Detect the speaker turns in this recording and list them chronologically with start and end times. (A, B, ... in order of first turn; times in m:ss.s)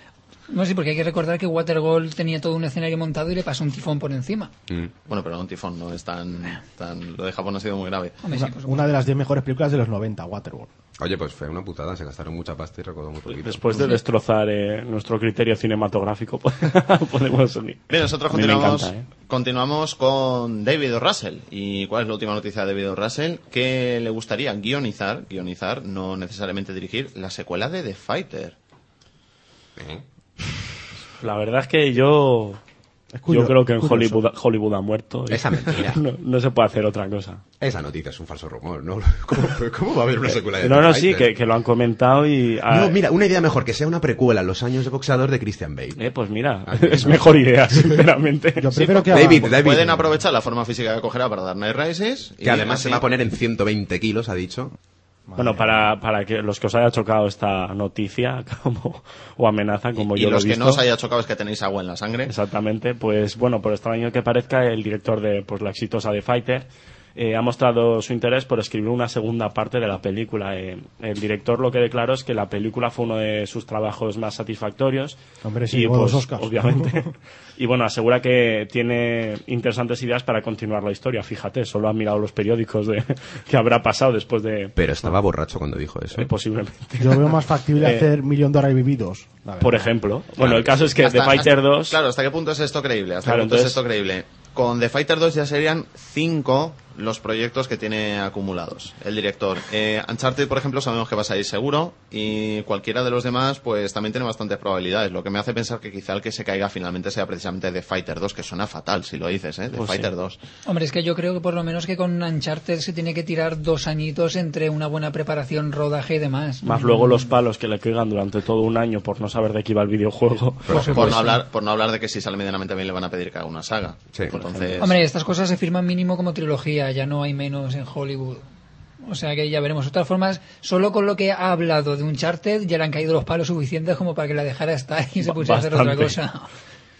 0:00.5-0:04.5 A
0:05.1-0:08.2 B
0:08.2-0:08.9 A
0:08.3-0:10.7 C
0:11.0-0:13.9 D
0:13.2-0:19.0 E
0:17.9-0:28.5 B
0:29.8-0:30.0 D
0:31.2-0:32.6 E
0:33.1-0:34.2 C
0:33.3-0:37.4 E
0:35.3-0:36.0 D
0:37.6-0:41.3 D
0:40.6-0:43.0 E
0:42.7-0:46.0 D
0:46.0-0:48.7 E
0:46.7-0:48.0 D
0:48.6-0:49.6 C
0:48.7-0:53.0 B
0:49.1-0:50.1 D
0:52.4-0:54.7 D
0:55.3-0:55.9 C
0:55.4-1:00.8 E
1:00.0-1:02.3 B
1:02.3-1:15.2 E
1:15.4-1:17.1 C
1:15.7-1:25.1 E
1:24.8-1:26.3 D
1:26.1-1:28.1 E
1:27.0-1:29.9 C
1:29.6-1:32.0 E
1:30.4-1:30.8 D
1:31.0-1:50.4 B
1:33.2-1:33.8 E
1:49.7-1:50.1 E
1:50.6-1:57.3 A
1:56.6-2:01.2 E
2:00.7-2:01.1 D
2:00.7-2:01.4 A
2:00.7-2:05.0 B
2:04.3-2:04.7 E
2:04.8-2:08.4 A
2:09.0-2:16.5 A
2:15.2-2:16.2 E